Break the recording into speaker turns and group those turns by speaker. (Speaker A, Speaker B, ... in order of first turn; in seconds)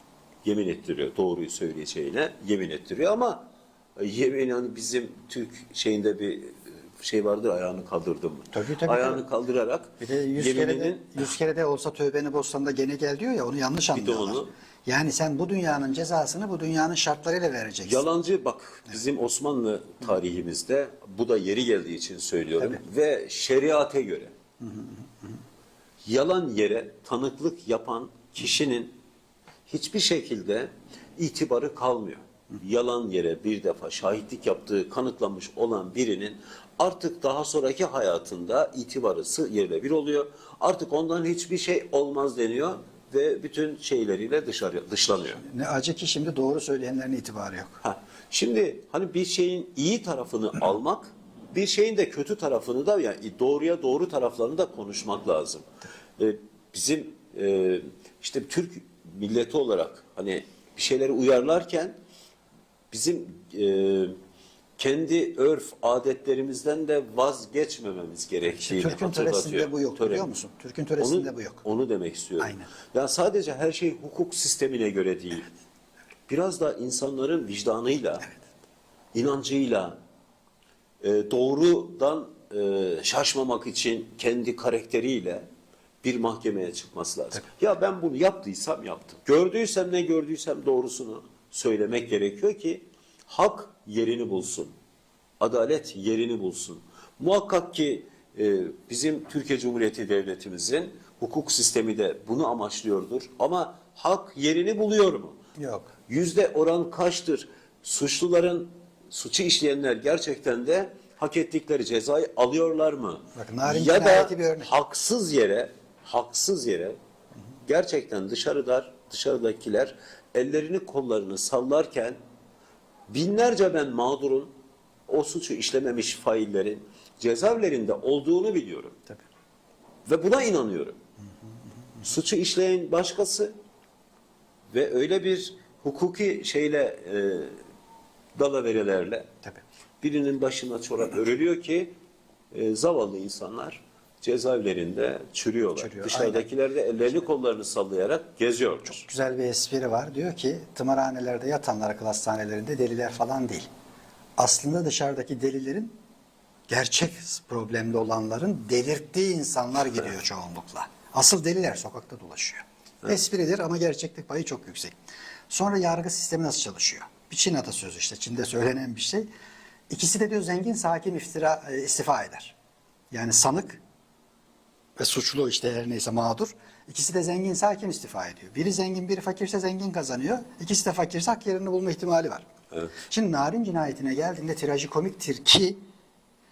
Speaker A: 0.4-11.3, 13.9-14.5, 17.9-24.3, 26.0-29.0, 29.7-45.4, 47.8-55.7, 56.2-62.0, 62.9-64.2, 64.8-70.3, 71.0-75.5, 76.3-78.3, 79.1-80.0, 81.0-85.5, 86.0-94.7, 95.4-105.4, 106.1-117.0, 117.7-122.2, 123.1-124.5, 125.1-129.0, 130.1-131.0, 132.0-133.5, 134.7-137.6, 138.4-139.3, 140.0-141.9, 142.5-149.0
Speaker B: 8.5-9.2, 10.0-18.1, 24.6-25.0, 45.4-47.8, 68.5-71.6, 72.4-72.7, 105.6-105.9, 113.3-114.7, 145.8-146.5, 148.9-153.7, 154.4-156.0, 156.7-164.9, 165.5-169.3, 169.9-172.6, 173.1-173.8, 175.0-182.5, 183.0-185.8